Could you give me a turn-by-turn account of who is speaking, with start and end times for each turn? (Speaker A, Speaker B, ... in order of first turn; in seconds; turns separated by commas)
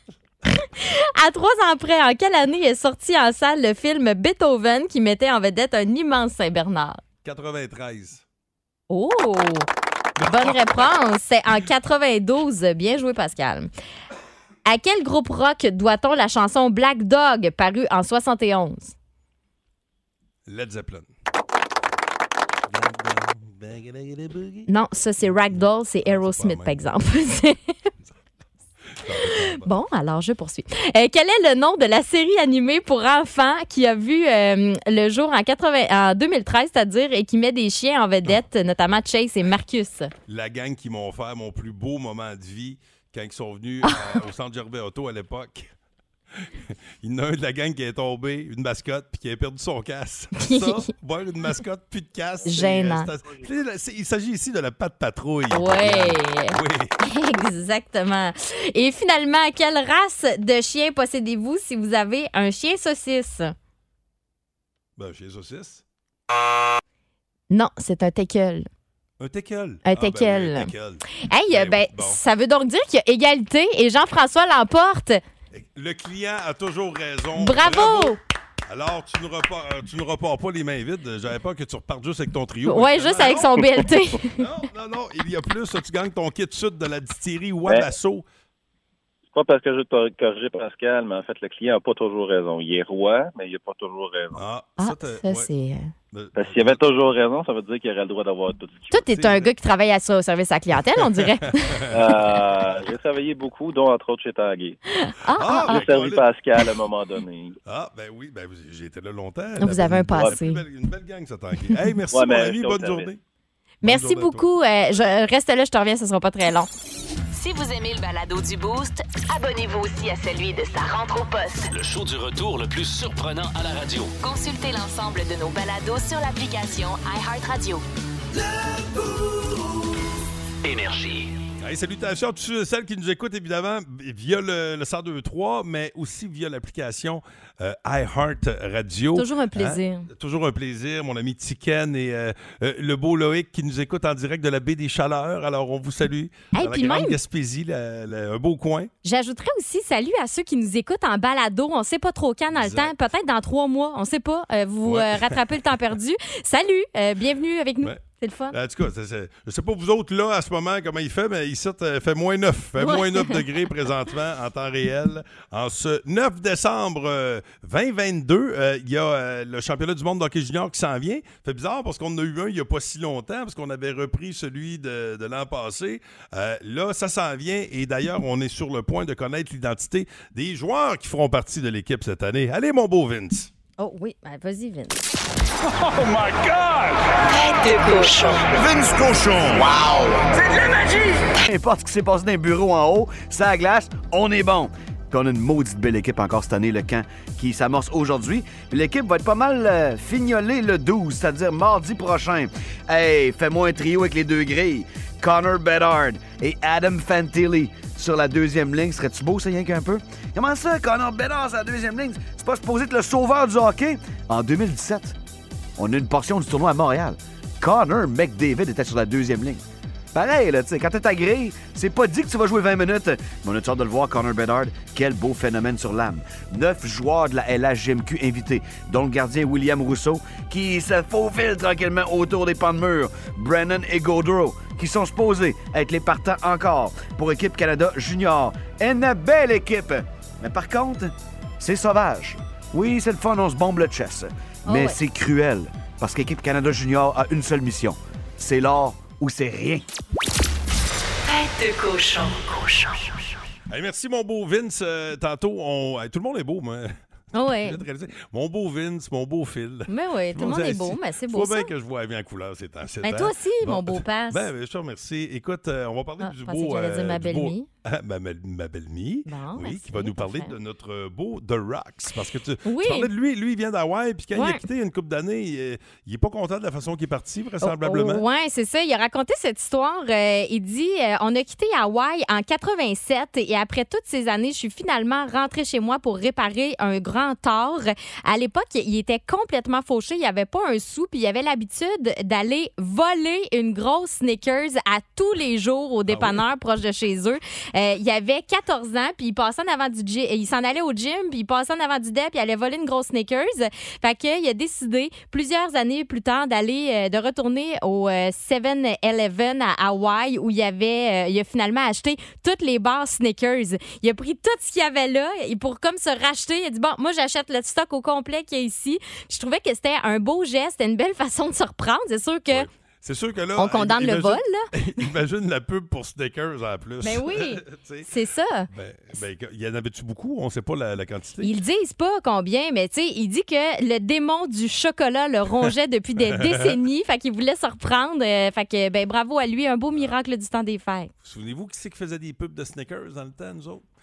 Speaker A: 0.6-7.0, Speaker B: 7.2-8.2, Speaker A: 8.9-9.7, Speaker B: 10.2-10.6, Speaker A: 10.2-13.7, Speaker A: 14.7-18.9, Speaker B: 20.5-21.1, Speaker B: 22.7-24.7, Speaker A: 24.7-27.6, Speaker B: 25.2-26.8, Speaker B: 29.0-29.7, Speaker A: 29.3-40.1, Speaker B: 40.3-45.7, Speaker B: 46.4-56.9, Speaker A: 50.4-50.9, Speaker A: 52.5-53.1, Speaker A: 55.5-63.5, Speaker B: 65.0-65.8, Speaker A: 67.5-68.7, Speaker B: 69.2-72.2, Speaker A: 69.9-70.7, Speaker A: 71.3-75.2, Speaker B: 75.5-83.6, Speaker A: 77.4-78.2, Speaker A: 82.7-84.3, Speaker B: 84.4-88.3, Speaker C: 89.3-94.4, Speaker B: 94.3-95.5, Speaker A: 94.8-95.9, Speaker B: 96.1-96.8, Speaker C: 96.4-99.1, Speaker A: 98.9-101.8, Speaker B: 99.1-99.5, Speaker B: 101.2-102.0, Speaker C: 101.9-104.8, Speaker A: 105.0-105.8, Speaker B: 105.4-106.3, Speaker C: 105.6-107.6, Speaker B: 107.7-113.2, Speaker A: 109.6-110.6, Speaker C: 112.1-113.1, Speaker A: 113.8-116.7, Speaker B: 113.8-114.5, Speaker D: 117.3-121.7, Speaker E: 121.7-124.2, Speaker D: 124.2-127.8, Speaker E: 130.6-131.3, Speaker B: 131.6-148.9, Speaker A: 139.2-140.1, Speaker A: 146.5-147.2, Speaker A: 149.0-158.6, Speaker B: 152.5-152.9, Speaker B: 154.8-155.4, Speaker B: 157.8-183.5, Speaker A: 162.8-163.5, Speaker A: 183.8-185.0, Speaker D: 187.5-188.3, Speaker F: 188.5-189.8, Speaker F: 191.4-215.2, Speaker F: 215.8-219.6, Speaker F: 220.1-249.8, Speaker A: 244.7-245.0, Speaker D: 251.3-253.1, Speaker B: 253.7-257.0, Speaker A: 257.3-257.8, Speaker B: 257.5-278.2, Speaker A: 259.9-261.7, Speaker A: 263.0-264.5, Speaker A: 266.2-267.7, Speaker A: 269.3-270.5, Speaker A: 272.6-273.1, Speaker A: 274.3-274.6, Speaker A: 277.6-322.7, Speaker B: 296.1-296.4, Speaker B: 322.5-328.1, Speaker A: 323.6-324.7, Speaker A: 327.0-328.7, Speaker B: 328.7-331.5, Speaker A: 331.4-341.1, Speaker B: 335.6-336.8, Speaker B: 341.2-343.9